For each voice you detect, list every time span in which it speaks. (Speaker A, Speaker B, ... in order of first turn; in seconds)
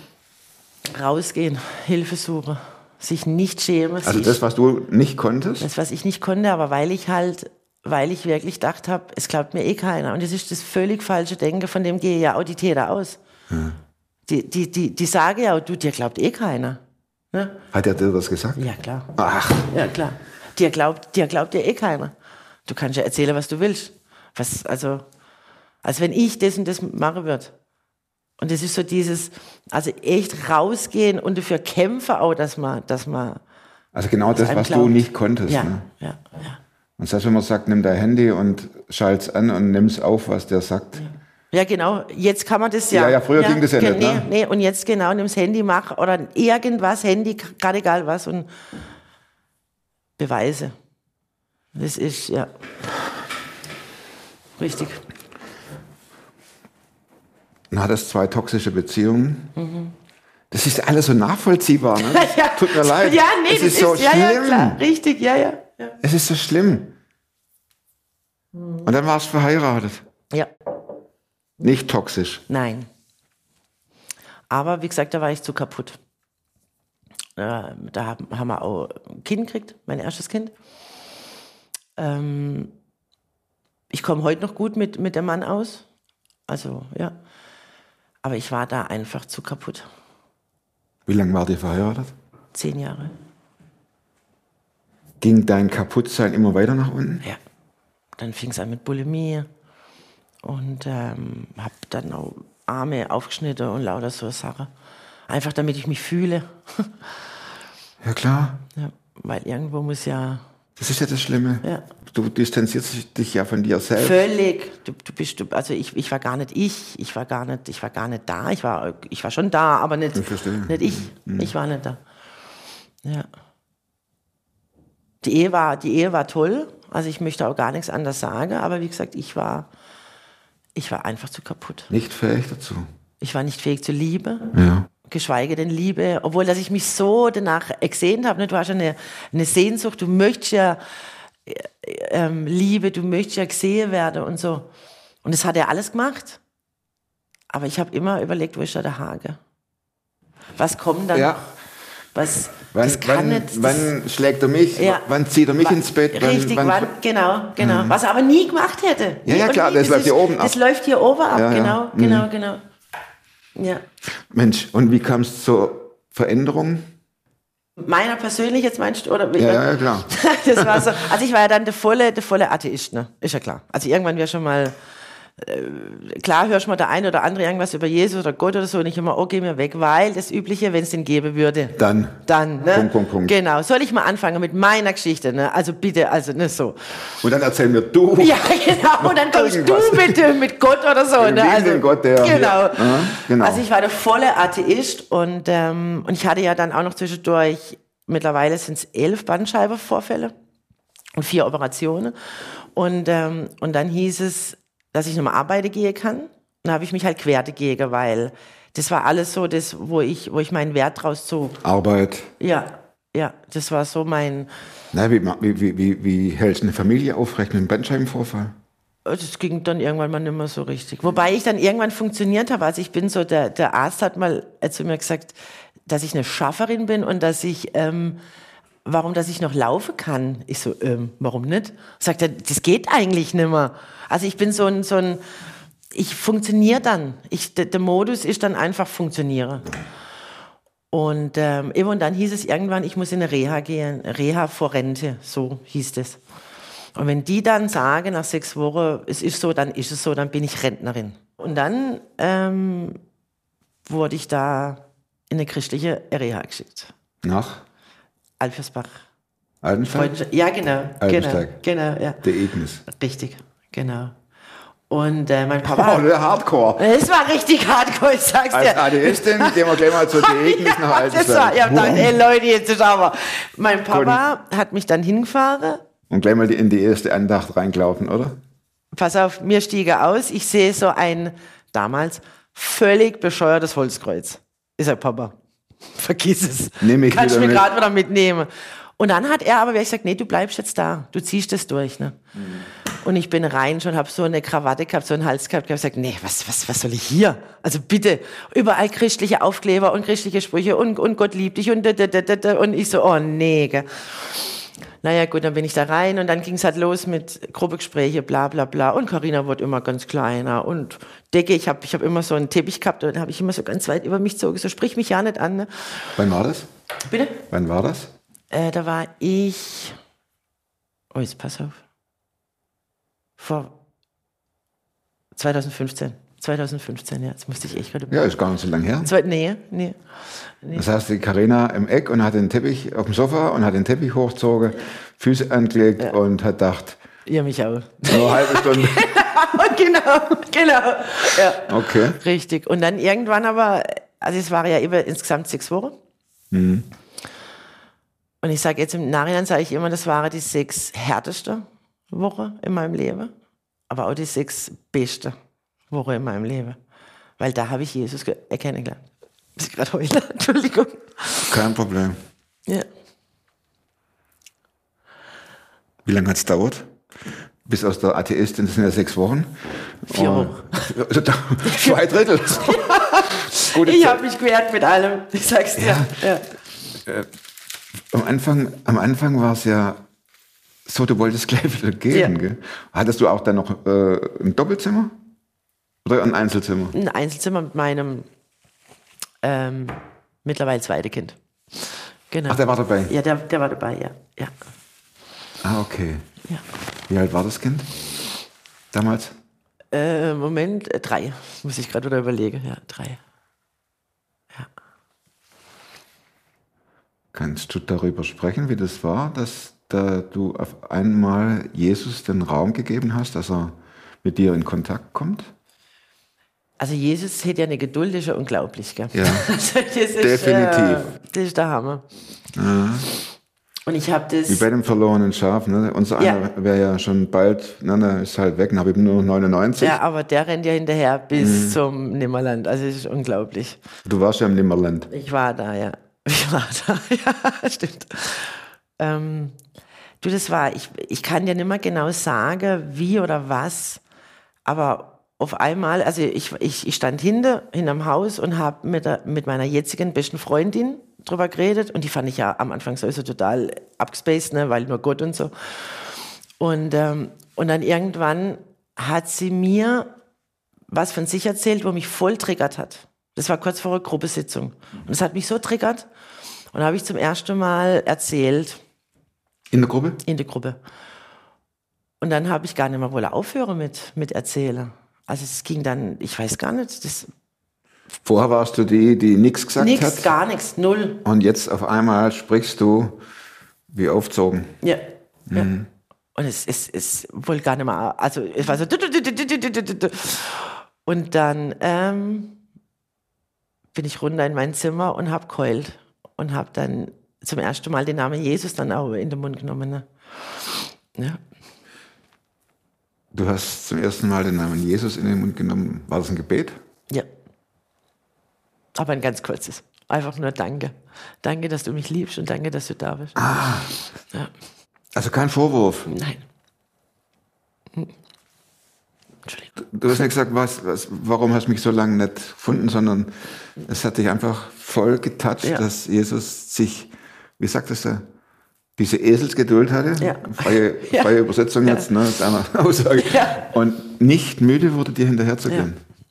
Speaker A: 0.9-4.4, 5.6-13.2, 14.3-16.8, 17.3-17.6, 18.6-19.1, 19.7-22.1, 22.7-25.1, 25.8-27.5, 28.4-33.4, 34.3-36.6, 41.0-48.5, 50.2-50.7, 51.8-52.5, 54.6-55.0, 59.6-59.9, 62.0-66.0, 72.5-72.9, 74.5-76.0, 77.4-80.5, 82.0-82.7, 83.9-85.9, 86.5-87.2, 88.2-89.9, 92.5-93.1, 98.2-99.5, 100.4-104.7, 105.3-106.9, 108.8-110.4, 114.0-122.0, 125.2-129.7, 130.8-131.9, 133.2-134.5, 135.1-140.8, 141.5-144.7, 145.2-146.4, 147.5-149.4, 150.6-151.3, 152.2-153.9, 154.8-155.1, 155.6-162.6, 163.6-163.8, 167.8-174.8, 175.4-187.0, 188.2-200.3, 201.2-202.2, 202.7-211.6, 212.4-214.5, 219.1-228.2, 228.8-235.2, 235.9-239.7, 240.9-246.2, 247.0-253.0, 253.9-256.9, 258.4-259.0, 259.9-262.2, 262.9-264.1, 264.9-266.1, 266.8-275.9, 278.9-285.4, 285.9-292.2, 293.0-304.5, 305.0-316.2, 317.1-317.4, 318.5-320.0, 321.1-321.8, 323.4-323.7, 325.4-328.3, 329.0-330.0, 337.3-346.0, 348.4-353.3, 353.9-355.4, 355.9-356.8, 357.4-359.0, 359.6-361.6, 370.1-370.9, 371.6-376.4, 386.9-388.3, 389.4-391.4, 392.3-394.5, 399.9-403.2, 416.8-422.0, 423.9-424.6, 429.8-433.8, 435.1-439.6, 440.2-444.0, 444.6-460.1, 460.9-466.1, 466.7-468.8, 470.2-470.8, 472.2-477.3, 479.8-481.2, 484.8-485.7, 486.4-492.6, 493.9-501.4, 508.9-513.4, 516.1-516.4, 519.5-520.2, 530.2-532.1, 533.2-533.7
Speaker B: 4.0-5.7, 13.5-13.8, 17.7-18.6, 19.2-19.7, 33.9-35.9, 37.0-41.0, 42.9-44.3, 57.7-59.5, 60.5-64.8, 66.0-67.0, 68.8-70.0, 71.6-72.5, 91.1-92.1, 95.2-97.2, 108.0-108.6, 110.8-114.2, 120.2-121.5, 131.9-132.9, 134.5-134.9, 151.1-151.4, 152.7-156.9, 157.6-158.0, 159.3-160.6, 161.3-162.3, 164.3-166.9, 169.4-170.9, 181.8-183.4, 187.2-190.3, 191.2-193.6, 211.6-212.3, 214.9-218.6, 257.2-257.6, 259.6-260.2, 261.0-261.6, 262.2-262.8, 265.7-266.9, 268.5-272.2, 273.9-274.2, 276.1-278.4, 286.8-287.7, 316.2-316.7, 317.5-318.1, 328.1-329.1, 330.8-337.0, 338.1-339.1, 341.7-342.2, 346.5-346.9, 361.5-362.2, 366.1-366.9, 367.6-374.2, 375.8-376.1, 378.1-380.0, 380.9-385.2, 386.0-386.9, 392.5-393.1, 395.6-396.3, 397.1-397.9, 398.9-399.3, 407.3-415.5, 419.1-419.5, 420.2-421.1, 422.6-423.1, 424.5-430.0, 431.4-431.8, 434.1-435.1, 469.7-470.2, 478.2-480.3, 481.2-483.2, 483.9-484.8, 485.5-485.9, 503.3-506.8, 513.4-513.9, 515.1-516.1, 519.8-528.2, 529.0-536.0